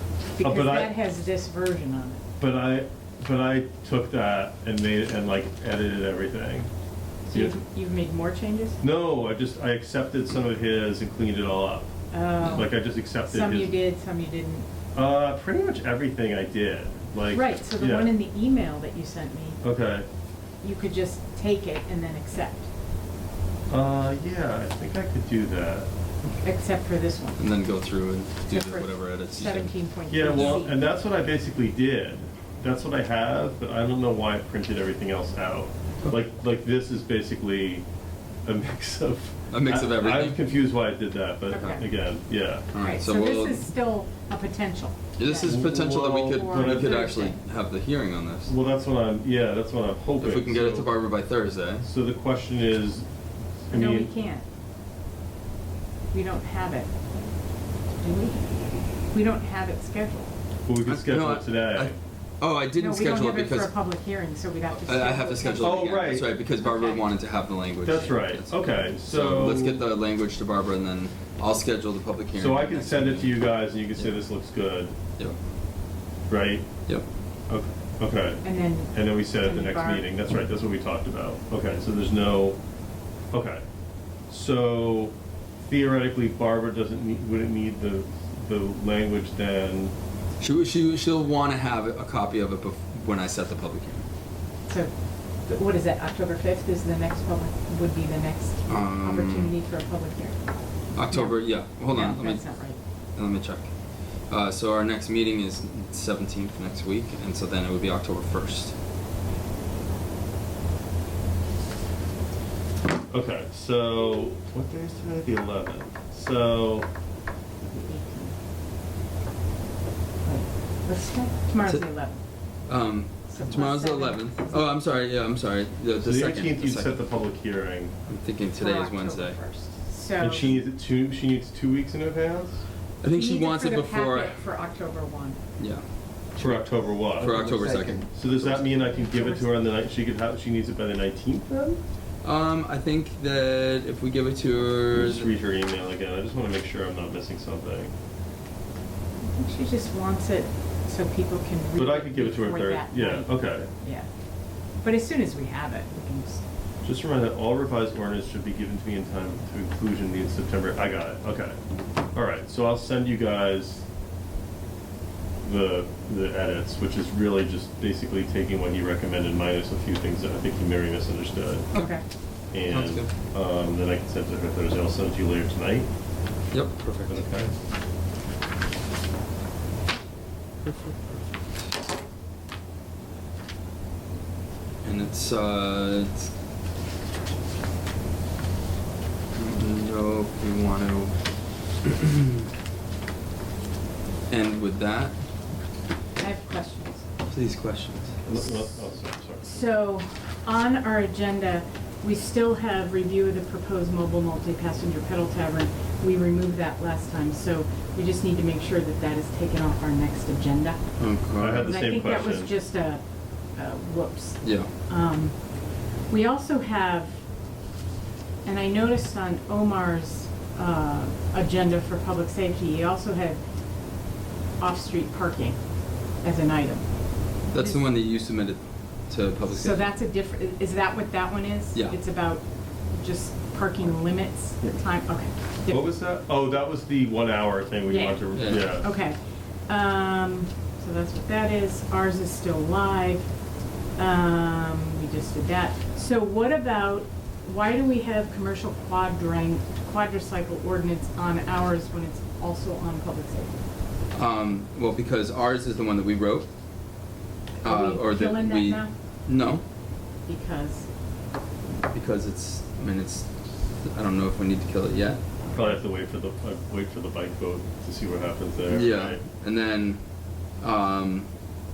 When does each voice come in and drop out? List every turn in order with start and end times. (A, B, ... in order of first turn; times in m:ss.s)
0:00.3-0:02.2 A
0:00.4-0:00.9 B
0:02.4-0:06.7 B
0:07.3-0:08.8 A
0:08.8-0:13.8 B
0:12.1-0:14.7 A
0:12.4-0:12.7 C
0:14.9-0:18.1 B
0:17.3-0:19.6 A
0:19.6-0:20.1 B
0:20.6-0:22.7 A
0:23.7-0:25.9 B
0:26.4-0:27.4 A
0:27.4-0:30.6 C
0:28.5-0:30.8 A
0:30.1-0:37.9 B
0:38.4-0:42.7 B
0:39.5-0:40.4 C
0:41.5-0:41.8 A
0:42.7-0:43.7 C
0:42.8-0:47.4 A
0:45.2-0:48.5 C
0:45.4-0:47.0 B
0:48.5-0:50.9 B
0:50.2-0:51.9 C
0:51.8-0:53.1 B
0:53.7-0:54.1 B
0:53.7-0:54.4 A
0:56.1-0:56.9 A
0:58.0-0:58.5 A
0:59.1-1:00.3 A
1:00.7-1:02.0 B
1:00.8-1:03.7 C
1:02.8-1:07.1 A
1:04.7-1:13.4 C
1:05.6-1:06.3 B
1:07.8-1:09.8 B
1:12.4-1:15.0 B
1:16.3-1:16.7 B
1:17.5-1:22.6 B
1:18.4-1:20.1 A
1:23.3-1:23.6 B
1:24.3-1:29.9 B
1:30.4-1:34.0 C
1:35.5-1:42.8 A
1:38.7-1:39.5 C
1:41.0-1:42.6 C
1:43.2-1:43.7 C
1:44.3-1:48.8 C
1:53.1-1:56.9 B
1:57.7-1:58.4 A
2:00.2-2:02.2 A
2:02.7-2:07.0 C
2:03.3-2:04.7 A
2:06.0-2:08.0 B
2:08.1-2:09.4 C
2:08.5-2:10.6 A
2:10.2-2:12.6 B
2:13.0-2:14.4 C
2:13.1-2:15.4 A
2:15.6-2:15.8 C
2:16.4-2:18.2 C
2:16.4-2:21.8 B
2:17.5-2:19.5 A
2:22.2-2:25.3 C
2:24.9-2:27.9 B
2:29.3-2:34.1 A
2:31.8-2:33.7 B
2:34.8-2:36.4 A
2:36.8-2:41.6 B
2:42.1-2:43.9 B
2:45.4-2:51.7 B
2:51.7-2:52.0 A
2:52.5-2:55.9 B
2:52.7-2:53.1 C
2:56.5-2:57.2 C
2:57.1-2:57.5 B
3:04.8-3:06.3 C
3:09.4-3:11.2 C
3:11.8-3:12.4 C
3:14.3-3:15.2 C
3:16.2-3:17.0 A
3:17.3-3:18.2 C
3:18.2-3:19.6 B
3:19.4-3:30.8 A
3:31.0-3:31.7 C
3:31.4-3:32.5 B
3:31.6-3:33.0 A
3:33.6-3:35.4 A
3:34.4-3:34.7 C
3:36.1-3:37.1 A
3:38.5-3:43.4 A
3:44.6-3:45.6 A
3:46.2-3:46.9 A
3:47.5-3:49.9 C
3:47.5-3:47.8 A
3:49.5-3:55.9 A
3:55.7-3:58.9 B
3:57.9-3:59.2 A
3:58.4-3:58.8 C
3:59.7-4:03.3 A
4:04.0-4:13.5 A
4:14.1-4:16.5 C
4:17.6-4:18.9 A
4:17.6-4:19.6 C
4:20.3-4:20.9 A
4:21.9-4:23.3 C
4:23.8-4:25.2 C
4:25.5-4:29.2 B
4:28.7-4:30.0 C
4:30.6-4:31.3 C